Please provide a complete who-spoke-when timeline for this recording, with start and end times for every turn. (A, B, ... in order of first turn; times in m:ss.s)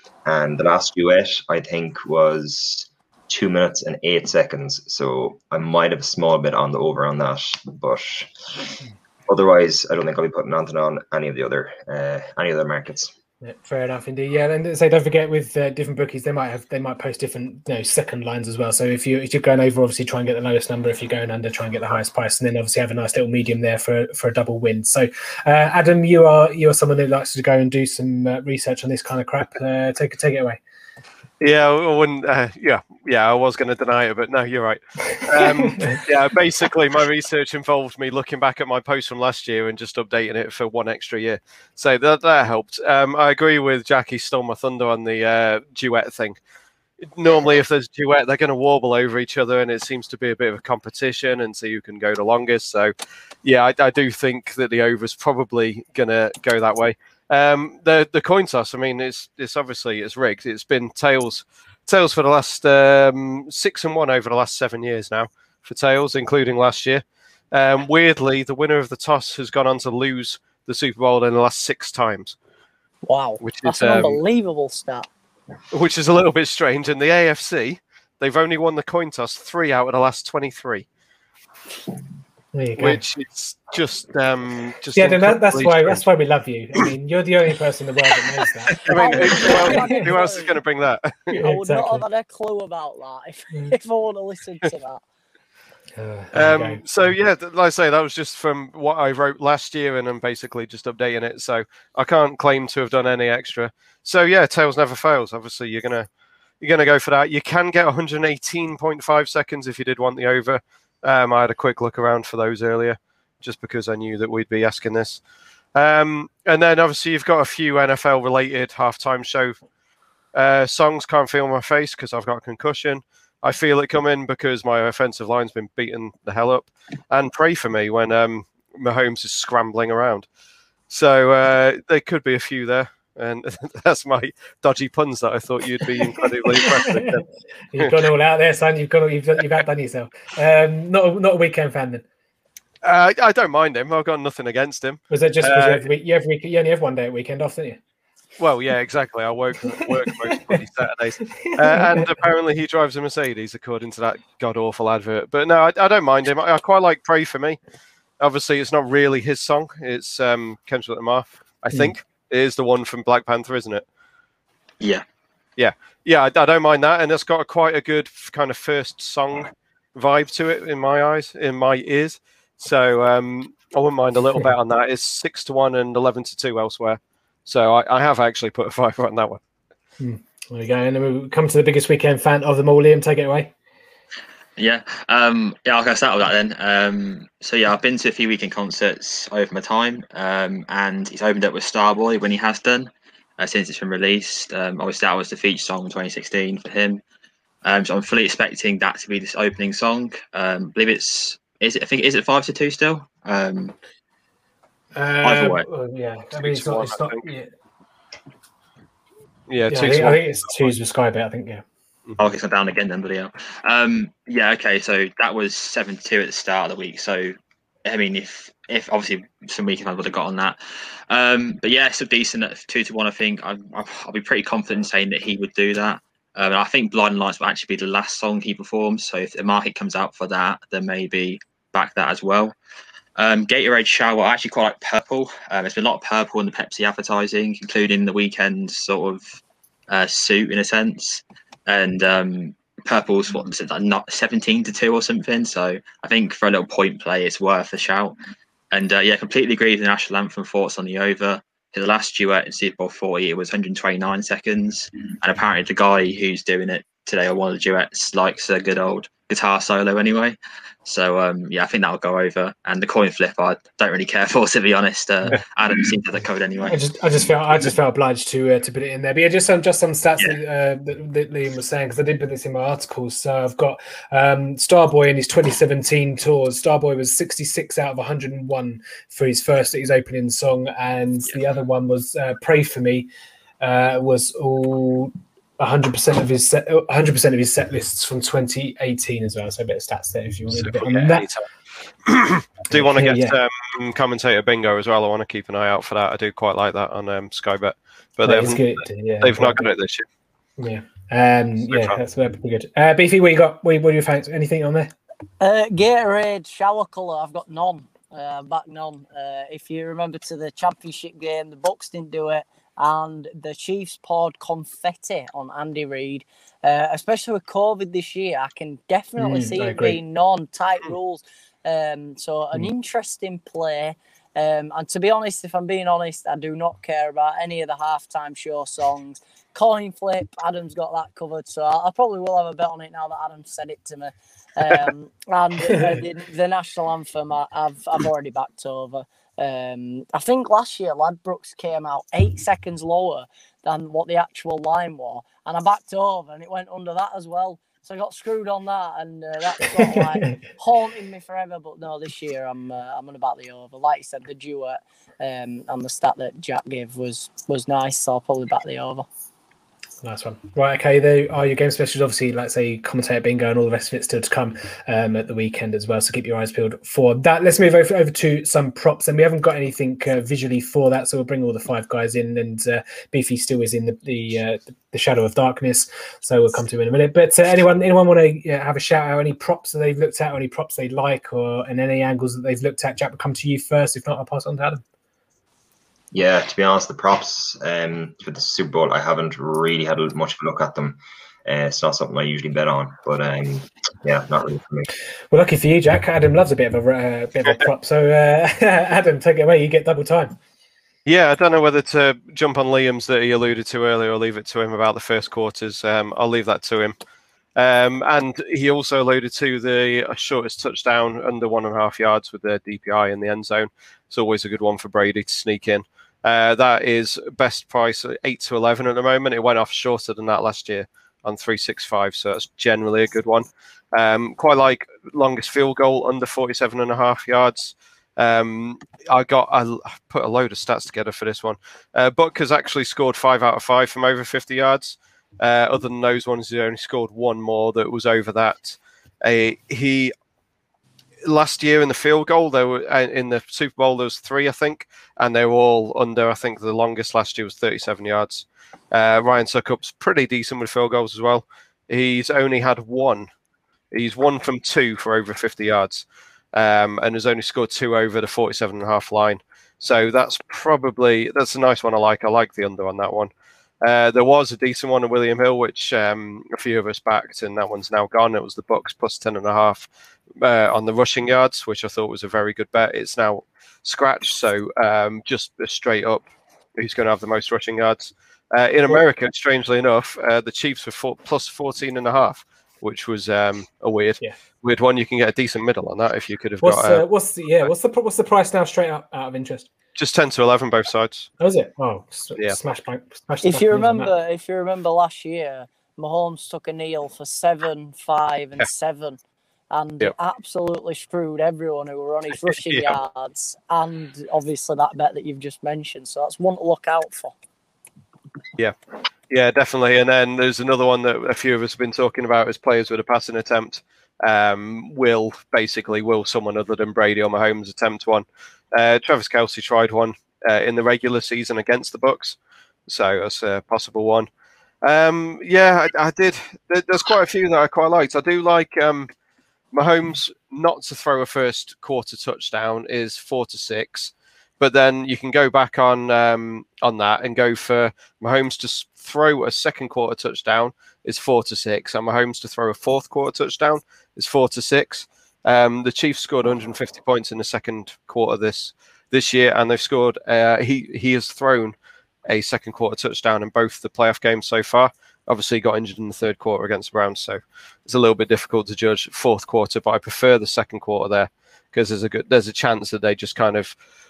0:00.2-0:08.7 A
0:09.3-0:13.1 A
0:13.4-0:30.6 B
0:31.4-0:46.4 C
0:35.3-0:36.0 B
0:47.0-0:52.9 C
0:53.4-1:12.4 C
1:13.0-1:15.1 D
1:13.4-1:14.2 C
1:15.7-1:20.8 C
1:22.5-1:23.0 B
1:22.8-1:26.0 C
1:24.9-1:30.0 B
1:28.7-1:31.3 C
1:28.9-1:30.6 D
1:31.3-1:32.0 B
1:31.4-1:35.0 D
1:36.0-1:37.1 B
1:36.3-1:46.1 C
1:46.6-1:55.2 C
1:55.7-1:59.6 C
2:00.3-2:10.3 C
2:10.9-2:17.2 C
2:16.6-2:17.1 B
2:17.7-2:22.0 B
2:22.8-2:25.9 C
2:25.1-2:27.8 B
2:28.4-2:37.6 C
2:30.3-2:30.6 B
2:31.3-2:32.1 B
2:38.2-2:43.8 C
2:45.6-2:59.4 C
3:00.0-3:03.5 B
3:04.6-3:17.0 E
3:17.6-3:23.7 E
3:24.9-3:27.5 B
3:25.2-3:25.6 E
3:26.4-3:27.2 C
3:29.5-3:30.7 C
3:29.7-3:31.6 B
3:32.2-3:40.6 E
3:41.1-3:52.6 E
3:53.2-3:59.2 E
3:59.9-4:08.2 E
4:08.7-4:27.7 E
4:26.7-4:43.1 B
4:43.6-4:51.3 B
4:50.5-4:51.4 C
4:52.0-5:00.0 C
4:52.7-4:53.4 B
4:58.2-4:59.6 B
5:00.6-5:04.9 B
5:01.7-5:02.0 C
5:05.4-5:59.0 D
5:19.2-5:20.0 B
6:00.0-6:24.8 B
6:26.1-6:34.9 A
6:35.3-6:40.4 B
6:41.0-6:46.9 C
6:47.6-7:20.1 C
7:21.2-7:33.3 C
7:33.9-7:43.3 C
7:43.8-8:07.0 C
8:06.6-8:09.7 B
8:10.0-8:11.3 C
8:11.4-8:14.1 B
8:13.4-8:19.2 D
8:19.7-8:27.4 D
8:29.3-8:44.3 C
8:44.8-8:49.1 C
8:49.7-9:11.8 C
9:12.3-9:23.8 C